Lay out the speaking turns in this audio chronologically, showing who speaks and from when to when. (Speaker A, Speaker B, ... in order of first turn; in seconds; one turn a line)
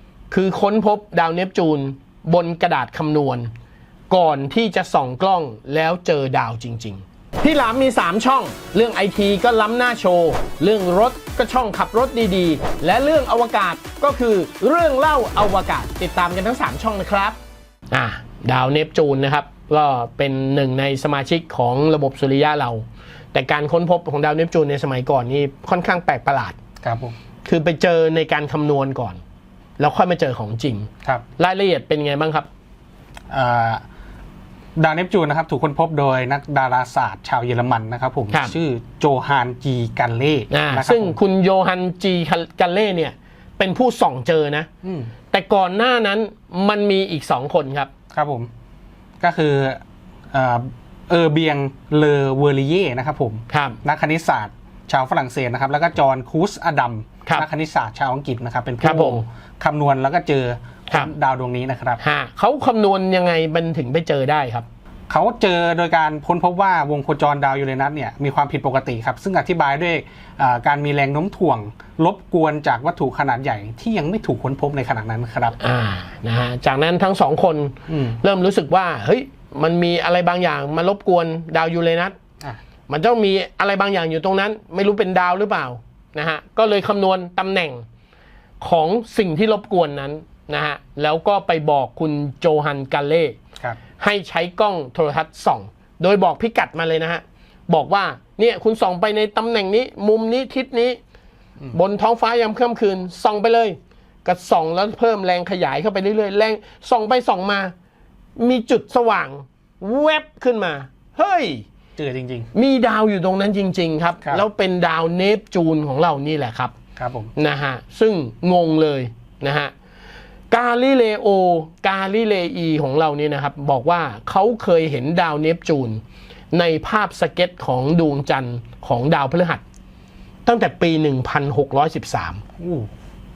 Speaker A: 0.3-3.5
Speaker A: 4.1-17.4
Speaker A: 17.9-26.6
Speaker B: 26.8-27.1
Speaker A: 27.5-29.2
Speaker A: 29.8-32.5
Speaker B: 33.3-33.8
Speaker B: 34.8-41.2
Speaker A: 40.5-44.7
Speaker B: 44.8-45.1
Speaker A: 45.3-47.9
Speaker B: 48.1-48.5
Speaker B: 49.2-49.8
Speaker B: 50.3-62.0
Speaker A: 53.5-53.8
Speaker A: 58.8-59.2
Speaker A: 62.0-64.7
Speaker B: 65.1-75.6
Speaker A: 75.6-82.2
Speaker B: 77.9-78.2
Speaker A: 82.9-87.8
Speaker A: 88.6-93.4
Speaker A: 94.0-101.0
Speaker A: 101.7-107.7
Speaker A: 108.4-111.7
Speaker B: 112.0-112.5
Speaker A: 112.5-116.7
Speaker B: 117.0-117.3
Speaker A: 117.4-119.7
Speaker A: 120.5-129.6
Speaker A: 130.5-132.4
Speaker B: 132.6-132.9